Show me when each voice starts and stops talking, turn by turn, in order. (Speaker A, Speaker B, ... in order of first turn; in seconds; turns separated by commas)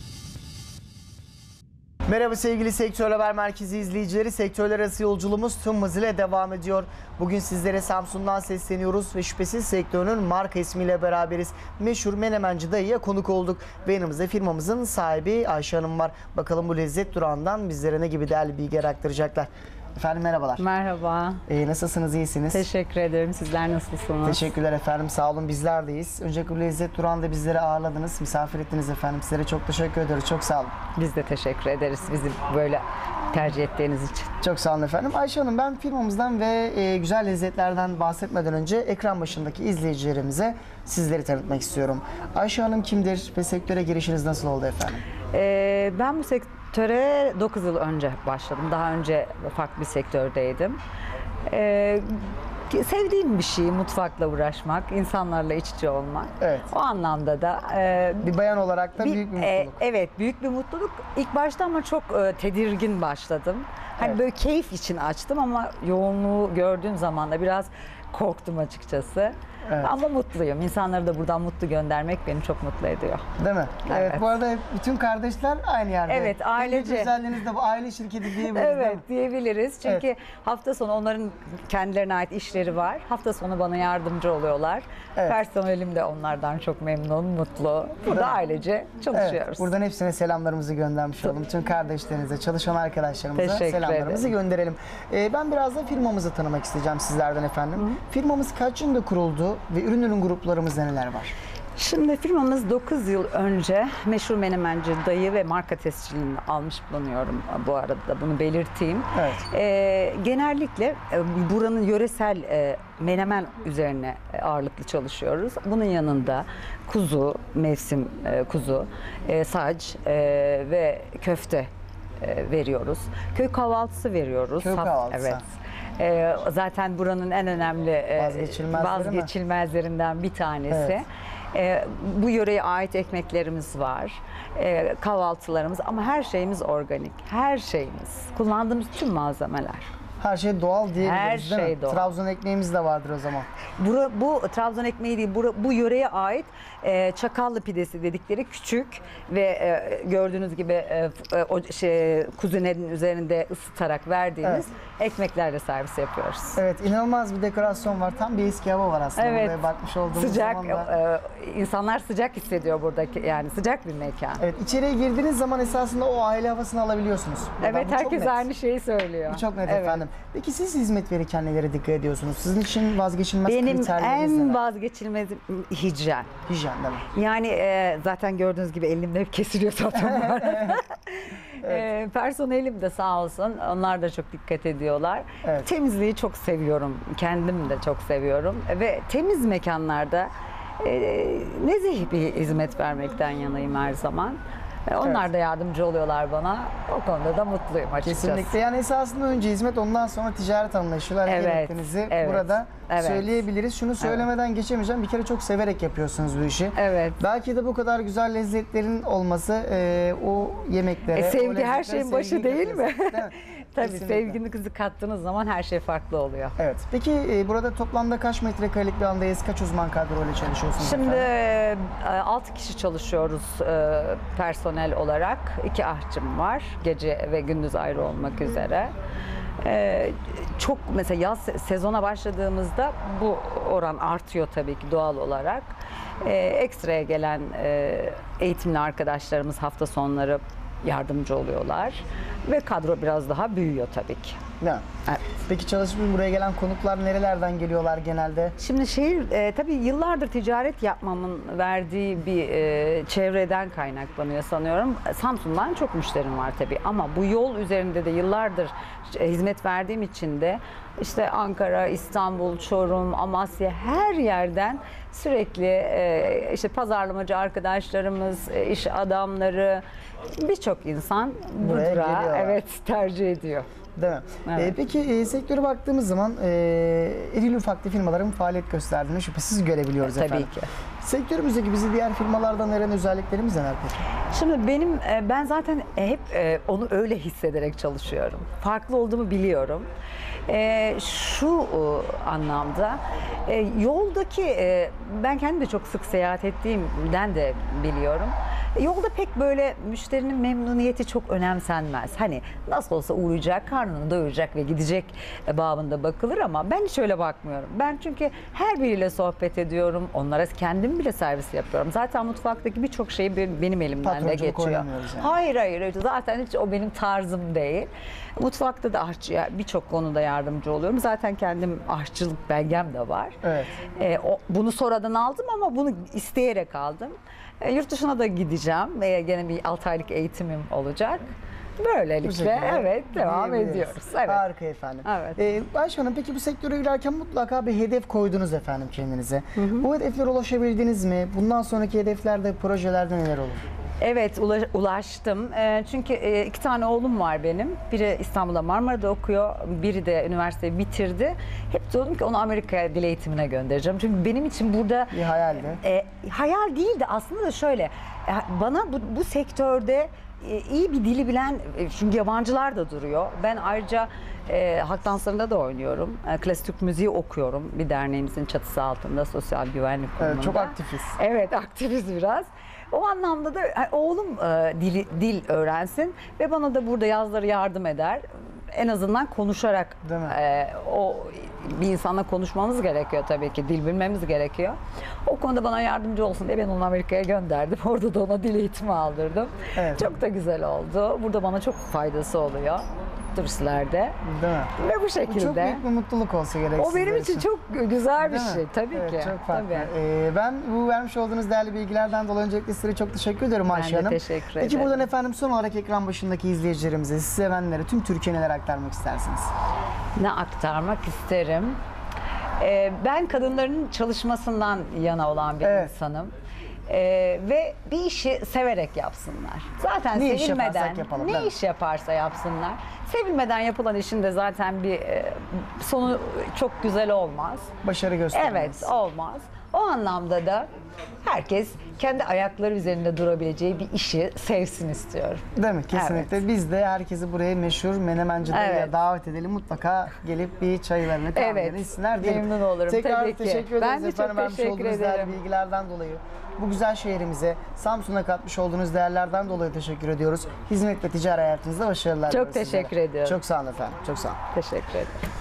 Speaker A: 2.1-20.6, Speaker B: 20.6-21.4, Speaker A: 21.5-22.6, Speaker B: 22.5-24.5, Speaker A: 24.2-30.7, Speaker B: 30.9-34.3, Speaker A: 34.4-45.0, Speaker B: 45.3-50.8, Speaker B: 51.5-52.0, Speaker B: 52.7-58.3, Speaker A: 56.4-56.7, Speaker A: 58.2-59.8, Speaker B: 59.0-73.2, Speaker A: 69.7-69.9, Speaker A: 73.4-79.0, Speaker B: 73.9-74.3, Speaker B: 76.1-77.2, Speaker B: 78.4-89.7, Speaker A: 88.0-88.4, Speaker A: 89.1-101.3, Speaker B: 93.3-94.3, Speaker B: 101.7-121.7, Speaker A: 109.1-109.4, Speaker B: 122.2-139.9, Speaker A: 124.6-125.4, Speaker A: 128.2-129.3, Speaker A: 130.7-131.0, Speaker A: 140.2-143.5, Speaker B: 141.0-142.1, Speaker B: 143.8-156.6, Speaker A: 156.6-160.9, Speaker B: 159.2-164.4, Speaker A: 164.4-168.5, Speaker B: 167.6-170.0, Speaker A: 169.3-174.6, Speaker B: 173.4-176.3, Speaker A: 176.5-177.1, Speaker B: 177.1-198.6, Speaker A: 180.0-180.8, Speaker A: 185.4-185.7, Speaker A: 195.0-195.3, Speaker A: 198.0-214.4, Speaker B: 201.2-203.4, Speaker B: 204.0-204.3, Speaker B: 206.8-207.2, Speaker B: 211.1-216.6, Speaker A: 216.6-221.3, Speaker B: 220.8-228.9, Speaker B: 229.6-244.4, Speaker A: 244.6-248.5, Speaker B: 248.6-269.8, Speaker B: 270.3-273.7, Speaker A: 271.6-272.6, Speaker A: 273.9-280.5, Speaker B: 274.4-274.8, Speaker B: 280.0-280.7, Speaker A: 281.0-284.0, Speaker B: 284.3-289.9, Speaker B: 290.5-323.4, Speaker A: 314.0-315.3, Speaker A: 323.4-323.7, Speaker B: 323.9-334.4, Speaker A: 332.2-343.6, Speaker B: 335.0-335.4, Speaker B: 339.6-339.9, Speaker B: 344.0-355.2, Speaker A: 355.1-355.8, Speaker B: 355.8-394.2, Speaker A: 370.2-371.1, Speaker A: 380.0-380.3, Speaker A: 389.8-390.1, Speaker A: 394.2-394.7, Speaker B: 394.8-395.8, Speaker A: 395.2-397.5, Speaker B: 396.7-399.9, Speaker A: 398.2-409.5, Speaker B: 403.7-405.1, Speaker B: 410.1-411.8, Speaker B: 412.6-416.3, Speaker A: 415.6-415.9, Speaker B: 416.9-427.7, Speaker A: 420.1-421.6, Speaker A: 427.8-428.9, Speaker B: 428.3-430.7, Speaker B: 431.2-436.4, Speaker A: 435.6-454.4, Speaker B: 438.5-438.9, Speaker B: 441.3-445.4, Speaker B: 452.3-453.4, Speaker B: 454.5-455.2